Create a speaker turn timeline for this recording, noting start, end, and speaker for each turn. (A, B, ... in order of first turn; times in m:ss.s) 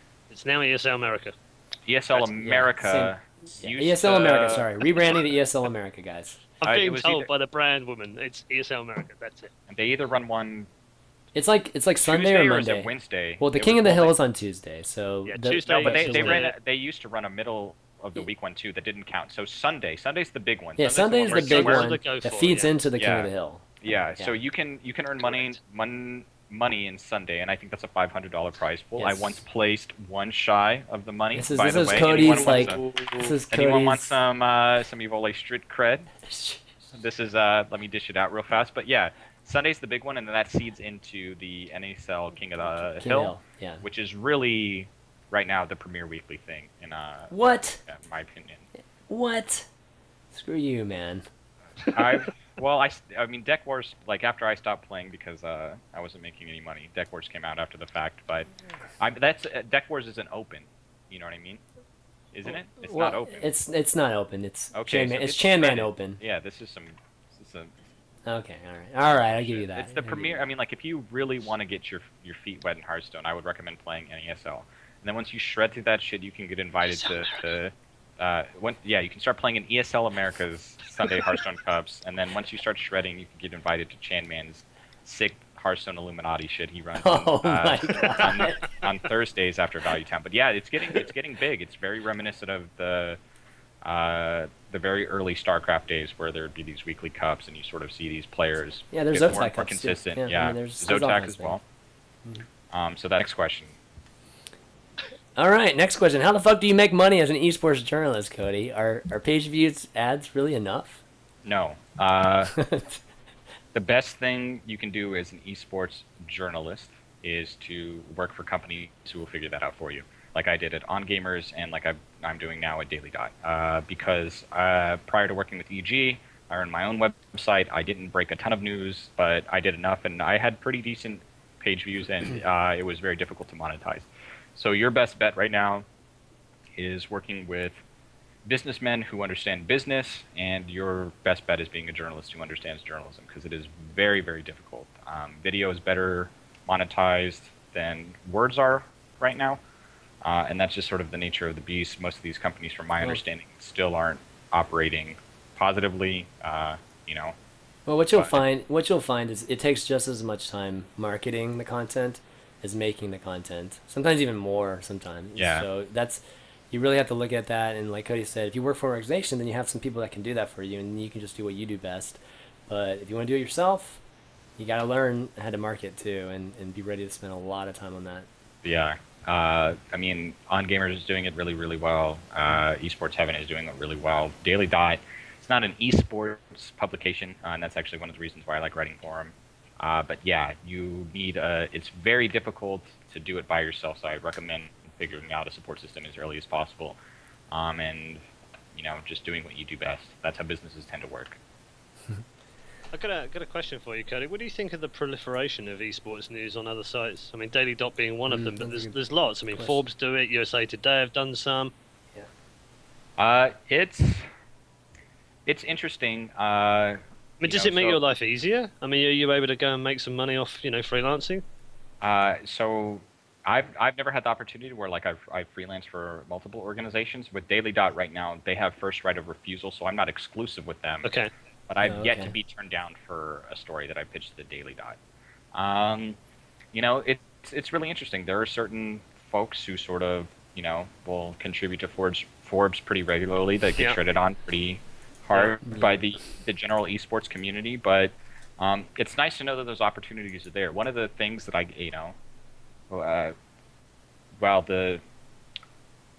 0:00.3-0:01.4 A
0:01.9-0:04.7 B
0:02.3-0:06.5 C
0:06.6-0:09.5 A
0:06.6-0:07.3 B
0:09.7-0:10.7 B
0:11.4-0:16.5 C
0:12.0-0:14.2 B
0:15.3-0:16.5 A
0:15.7-0:21.9 B
0:20.8-0:24.3 C
0:21.3-0:22.7 A
0:23.0-0:23.3 B
0:23.8-0:36.2 B
0:29.0-0:29.4 C
0:31.3-0:34.2 C
0:36.3-0:36.6 C
0:36.9-0:48.7 B
0:43.0-0:43.8 C
0:47.3-0:47.8 C
0:49.1-0:49.7 C
0:50.3-0:51.3 C
0:51.8-1:01.6 B
1:02.3-1:03.5 B
1:02.9-1:06.2 C
1:04.7-1:07.7 B
1:08.2-1:10.4 C
1:09.1-1:33.2 B
1:27.0-1:28.6 C
1:33.8-1:41.6 B
1:38.9-1:41.6 C
1:42.7-1:43.8 B
1:45.4-1:51.0 C
1:51.4-1:52.6 B
1:52.5-1:53.0 C
1:53.7-2:15.8 B
2:16.8-2:17.8 B
2:18.4-2:29.6 B
2:30.2-2:37.4 B
2:37.9-2:54.0 C
2:45.4-2:45.7 B
2:54.6-2:58.3 C
2:58.6-3:17.0 B
3:17.5-3:18.2 B
3:18.8-3:21.4 B
3:22.9-3:31.7 A
3:28.3-3:29.0 C
3:29.5-3:29.8 C
3:33.2-3:34.3 B
3:35.5-3:38.0 B
3:37.4-3:41.4 A
3:42.0-3:51.1 B
3:51.0-3:51.3 A
3:51.7-3:55.0 B
3:51.8-3:52.3 C
3:55.5-3:56.2 B
3:56.7-4:12.2 B
4:05.6-4:06.0 C
4:12.9-4:13.4 B
4:14.4-4:15.0 B